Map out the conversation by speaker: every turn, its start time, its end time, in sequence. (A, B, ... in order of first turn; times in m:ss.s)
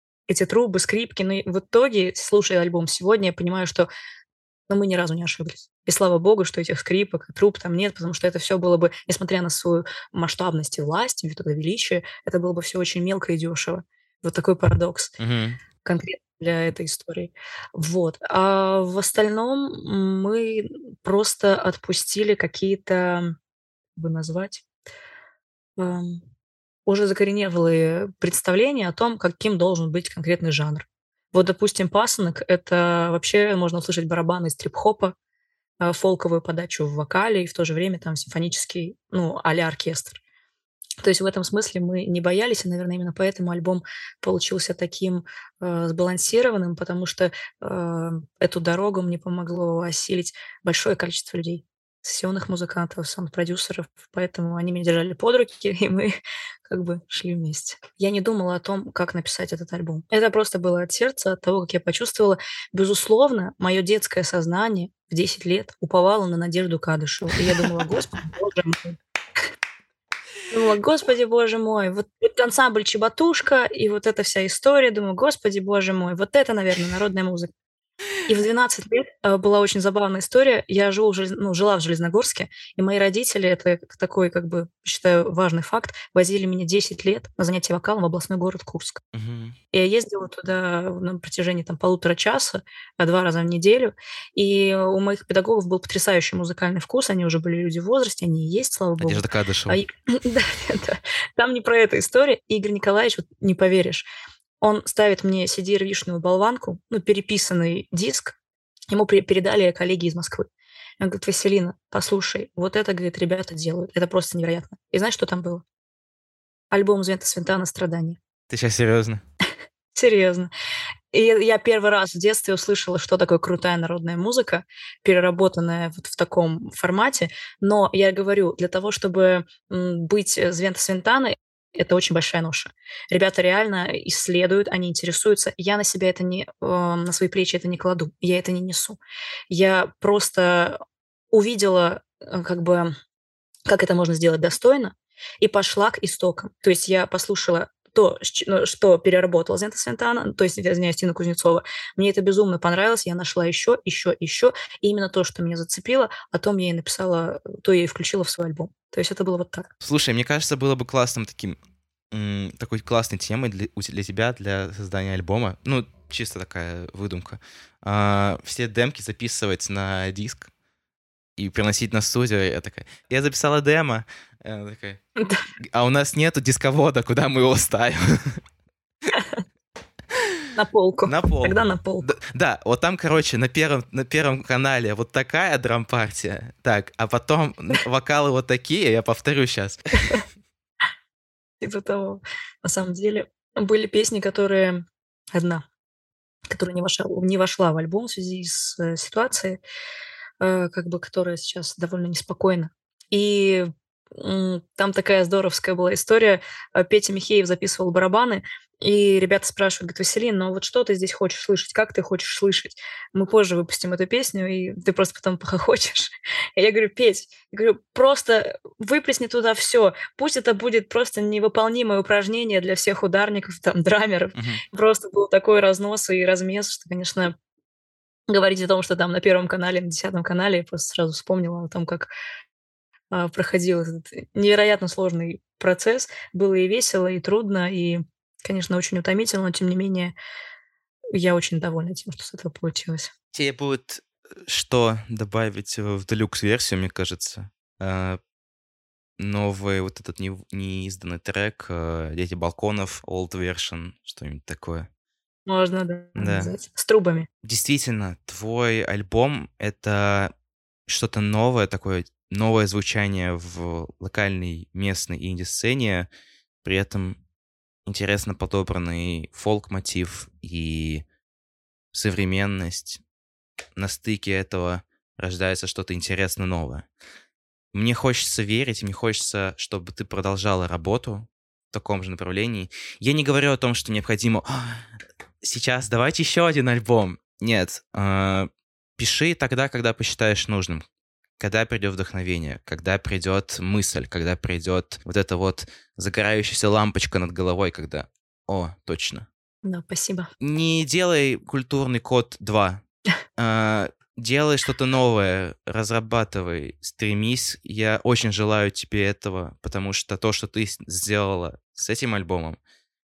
0:00.3-0:03.9 A
0:04.7-0:15.1 A
0:15.2-0:15.6 B
0:15.8-0:23.3 A
0:24.0-0:24.6 A
0:25.8-0:26.2 A
0:26.9-0:35.1 A
0:35.8-0:40.2 A
0:41.0-1:09.0 A
1:10.5-1:17.5 A
1:18.3-1:29.0 A
1:29.1-1:29.6 B
1:29.7-1:44.1 A
1:39.0-1:39.8 B
1:44.6-1:48.4 A
1:48.9-1:50.5 A
1:51.0-1:55.6 A
1:56.7-1:58.2 A
1:58.5-1:59.2 B
2:00.0-2:00.5 A
2:01.1-2:19.0 A
2:19.5-2:20.8 A
2:21.3-2:22.9 A
2:23.7-2:39.7 A
2:39.8-2:41.6 B
2:42.1-2:50.5 B
2:51.4-2:55.0 B
2:55.7-2:58.4 B
3:00.5-3:02.1 A
3:01.1-3:10.2 B
3:11.6-3:14.8 A
3:15.3-3:15.6 A
3:16.5-3:19.6 A
3:20.4-3:47.3 A
3:44.4-3:44.6 B
3:48.3-3:52.1 A
3:53.1-4:00.1 A
4:01.2-4:03.1 A
4:03.3-4:08.2 B
4:09.2-4:14.9 B
4:15.5-4:17.3 A
4:16.2-4:16.5 B
4:17.4-4:20.3 B
4:20.9-4:26.1 B
4:26.6-4:27.2 B
4:27.9-4:31.1 B
4:31.9-4:33.0 B
4:33.8-4:36.9 B
4:37.7-4:44.9 B
4:45.4-4:50.8 B
4:51.4-4:59.3 B
4:59.6-5:00.3 A
5:00.4-5:02.8 B
5:03.4-5:12.6 B